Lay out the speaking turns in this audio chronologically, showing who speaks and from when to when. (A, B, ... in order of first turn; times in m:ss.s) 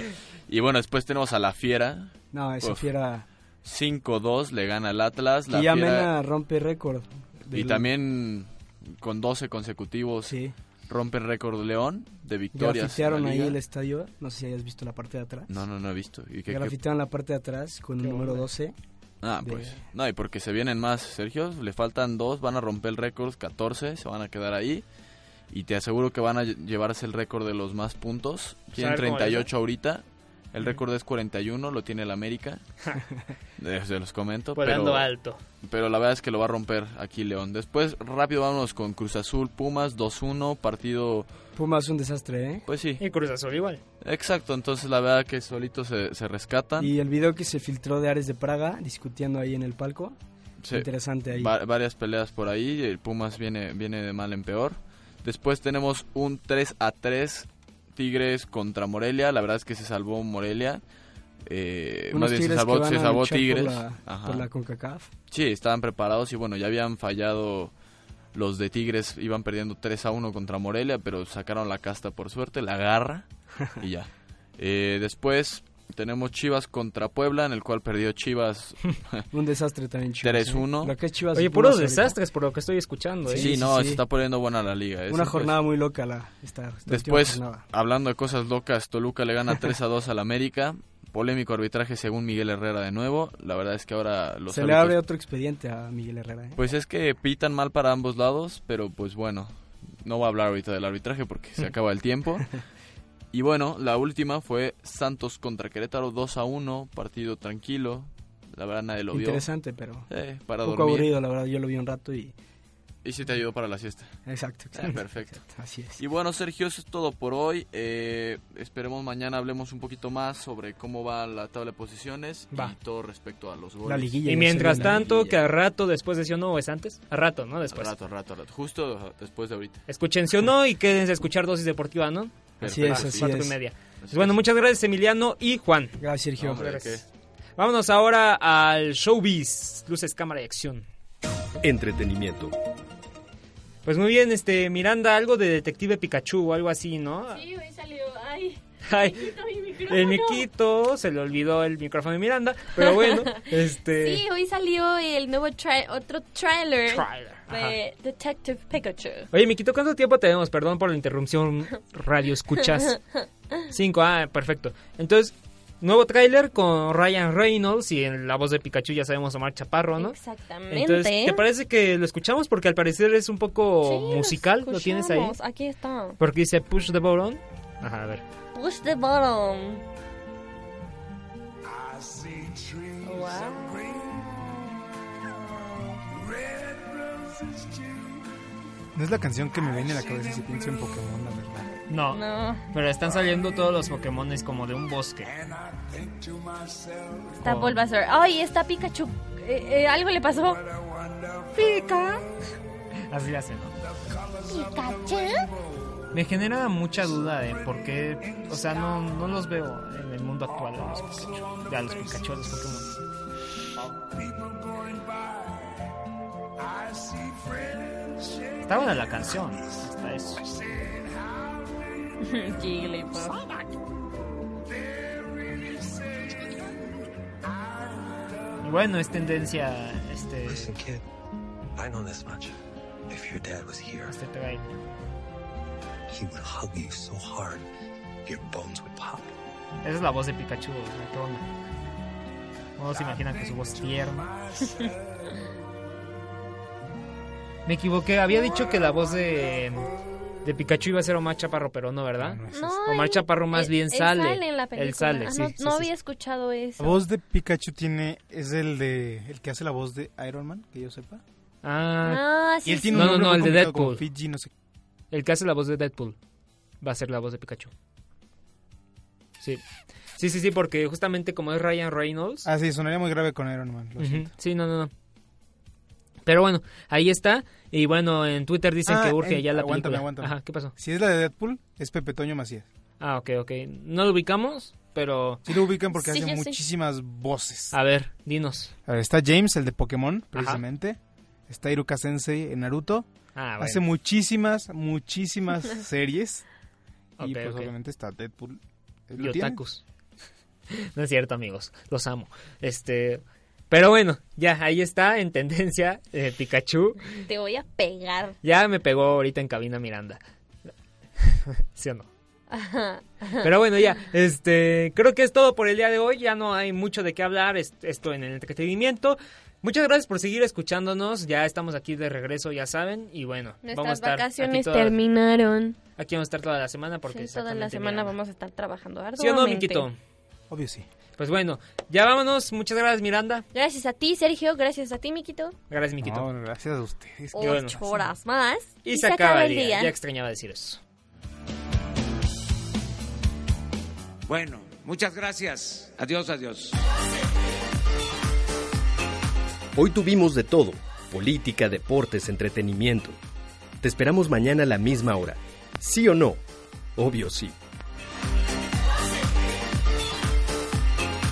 0:00.5-0:02.8 A
0:02.3-0:03.2 B
0:03.6-0:06.1 A
0:05.5-0:07.9 B
0:07.5-0:10.4 A
0:10.2-0:10.5 B
0:10.9-0:13.6 A
0:12.5-0:15.6 B
0:15.5-0:16.8 A
0:16.5-0:18.7 B
0:18.0-0:18.5 C
0:19.2-0:24.8 A
0:19.4-0:19.8 B
0:25.5-0:32.6 A
0:28.8-0:29.5 C
0:33.6-0:35.1 A
0:34.6-0:35.4 C
0:35.6-0:41.3 A
0:41.6-0:42.6 B
0:42.7-0:43.0 A
0:43.0-0:43.8 C
0:44.0-0:46.9 A
0:46.8-0:50.2 B
0:50.6-1:00.8 A
0:50.7-0:51.5 B
1:01.5-1:04.5 A
1:02.1-1:05.1 B
1:05.3-1:07.7 A
1:08.3-1:19.2 A
1:19.3-1:22.2 B
1:20.2-1:21.0 A
1:21.3-1:23.5 C
1:23.2-1:24.0 B
1:23.4-1:25.6 A
1:25.1-1:27.6 B
1:26.8-1:35.0 A
1:34.5-1:36.6 B
1:36.6-1:42.6 A
1:43.3-1:49.5 A
1:49.1-1:50.1 B
1:50.1-1:51.1 A
1:50.6-1:52.3 B
1:53.0-1:54.2 A
1:54.2-1:56.0 B
1:54.7-2:05.4 A
2:03.8-2:05.0 B
2:04.2-2:07.9 C
2:07.7-2:09.8 A
2:09.9-2:17.0 C
2:12.6-2:13.4 A
2:12.6-2:13.6 B
2:14.0-2:14.4 A
2:16.0-2:16.6 B
2:16.4-2:17.0 A
2:17.6-2:20.8 C
2:21.6-2:22.5 D
2:23.8-2:27.4 C
2:27.3-2:30.4 E
2:28.8-2:29.3 C
2:29.8-2:34.2 C
2:32.8-2:33.1 E
2:34.0-2:39.3 E
2:36.9-2:37.8 C
2:39.3-2:43.0 C
2:43.7-2:50.2 C
2:50.0-2:51.4 E
2:50.7-2:55.4 C
2:53.8-2:56.2 E
2:56.2-2:58.2 C
2:58.5-2:59.8 E
3:03.0-3:04.5 E
3:08.9-3:11.7 F
3:11.9-3:15.3 C
3:12.1-3:12.6 E
3:17.3-3:17.8 C
3:17.4-3:20.6 E
3:21.5-3:22.2 C
3:23.1-3:23.8 C
3:24.4-3:25.5 E
3:26.1-3:32.9 C
3:38.5-3:40.4 C
3:42.2-3:43.4 E
3:48.6-3:50.8 C
3:50.5-3:51.0 G
3:51.7-3:52.6 G
3:53.1-3:54.2 G
3:54.1-3:54.7 C
3:56.1-3:57.7 G
3:58.2-3:59.3 G
3:59.8-4:01.4 C
4:02.8-4:04.3 C
4:07.6-4:09.8 C
4:10.4-4:15.9 C
4:12.2-4:12.8 F
4:12.5-4:17.0 E
4:16.8-4:21.2 F
4:21.6-4:22.2 C
4:22.0-4:23.2 E
4:22.6-4:24.5 F
4:22.9-4:24.0 C
4:25.1-4:26.2 C
4:26.8-4:27.7 C
4:30.2-4:32.5 C
4:32.4-4:34.3 F
4:34.0-4:34.9 C
4:36.2-4:40.7 C
4:38.8-4:42.6 F
4:43.0-4:45.4 C
4:45.4-4:47.7 F
4:45.9-4:46.6 E
4:47.7-4:48.7 C
4:48.9-4:53.0 F
4:50.3-4:50.6 C
4:53.3-4:53.8 C
4:53.6-4:56.4 F
4:57.2-4:57.7 C
4:57.2-4:59.6 F
4:59.2-4:59.8 C
5:00.7-5:07.0 C
5:07.2-5:08.4 E
5:08.4-5:10.2 C
5:11.2-5:12.1 C
5:12.5-5:13.5 E
5:13.4-5:25.0 C
5:23.6-5:25.8 E
5:26.0-5:28.1 C
5:27.1-5:29.9 E
5:29.2-5:30.0 C
5:30.5-5:30.8 F
5:31.2-5:33.4 C
5:33.5-5:35.6 E
5:35.7-5:36.3 C
5:36.0-5:38.0 F
5:37.3-5:39.9 E
5:37.4-5:37.8 C
5:38.8-5:40.8 C
5:44.3-5:46.8 H
5:49.8-5:53.2 D
5:53.8-5:56.4 D
5:57.0-5:57.5 D